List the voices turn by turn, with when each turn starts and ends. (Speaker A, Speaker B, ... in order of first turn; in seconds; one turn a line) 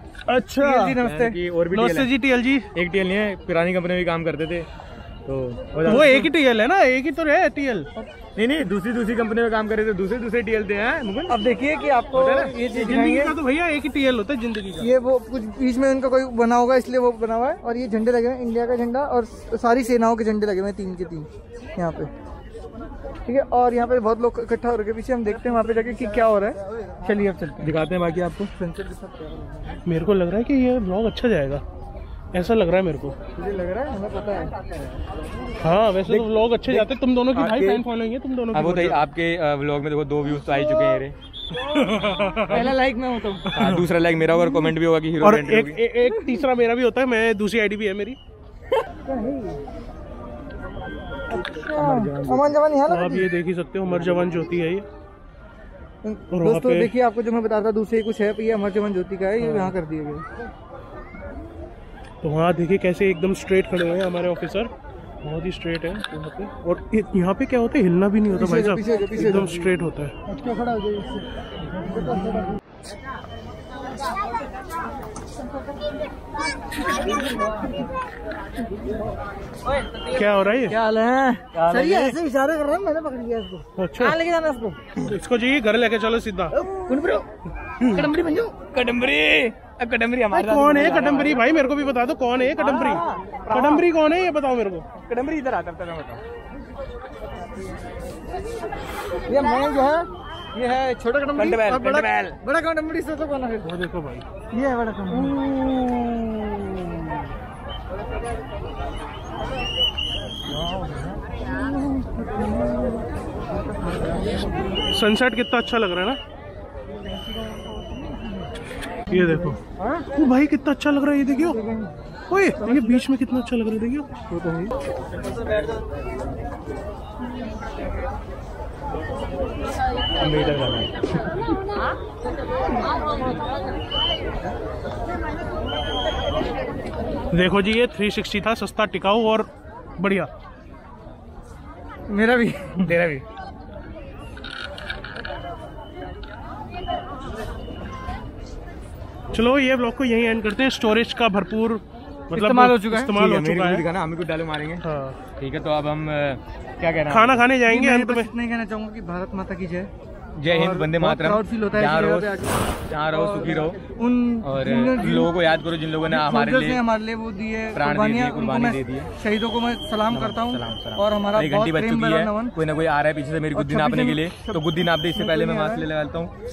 Speaker A: 0.3-1.0
Speaker B: 0.6-1.4
Speaker C: 1.0-2.1
Speaker A: 1.7-2.7
Speaker C: 2.7-4.7
Speaker C: 5.2-6.2
Speaker A: 5.8-7.9
Speaker B: 5.9-6.2
Speaker C: 8.3-11.5
Speaker B: 11.3-13.3
Speaker A: 12.1-14.9
Speaker B: 14.8-22.1
Speaker B: 23.2-27.7
Speaker C: 27.6-28.5
Speaker B: 28.6-29.8
Speaker A: 29.8-31.6
Speaker A: 32.3-33.1
Speaker B: 33.4-34.6
Speaker A: 35.6-39.0
Speaker C: 36.1-37.8
Speaker C: 38.5-41.1
Speaker A: 41.5-42.7
Speaker B: 42.5-43.5
Speaker A: 43.5-43.9
Speaker C: 43.5-45.8
Speaker A: 45.2-48.2
Speaker B: 49.0-49.6
Speaker B: 51.3-53.3
Speaker C: 51.5-52.6
Speaker A: 52.9-54.9
Speaker B: 56.0-60.2
Speaker A: 56.3-56.9
Speaker A: 59.4-59.7
Speaker A: 62.2-64.7
Speaker A: 65.2-70.2
Speaker B: 68.3-69.7
Speaker B: 70.8-71.0
Speaker B: 77.0-77.2
Speaker A: 80.0-80.8
Speaker B: 80.7-84.9
Speaker C: 81.5-82.2
Speaker A: 83.8-84.2
Speaker A: 85.0-86.5
Speaker B: 86.6-87.2
Speaker B: 87.9-88.5
Speaker C: 88.5-91.4
Speaker A: 90.3-94.8
Speaker B: 92.6-93.2
Speaker C: 93.5-93.9
Speaker C: 95.0-96.2
Speaker B: 99.2-103.7
Speaker C: 101.3-102.4
Speaker A: 103.6-104.2
Speaker B: 104.5-105.3
Speaker C: 105.2-106.7
Speaker A: 114.9-116.2
Speaker A: 119.1-119.6
Speaker A: 120.1-121.6
Speaker B: 121.5-121.9
Speaker A: 122.3-124.1
Speaker B: 124.3-124.7
Speaker A: 130.2-131.5
Speaker A: 137.3-140.3
Speaker B: 142.1-142.9
Speaker C: 142.8-143.2
Speaker A: 149.3-153.8
Speaker B: 152.3-153.1
Speaker C: 153.1-154.8
Speaker A: 154.8-155.2
Speaker C: 155.4-157.4
Speaker A: 157.1-158.3
Speaker B: 157.7-159.9
Speaker C: 160.4-163.8
Speaker B: 160.5-165.3
Speaker C: 164.4-166.8
Speaker B: 166.0-172.6
Speaker C: 167.7-169.1
Speaker C: 170.1-176.3
Speaker B: 173.5-175.9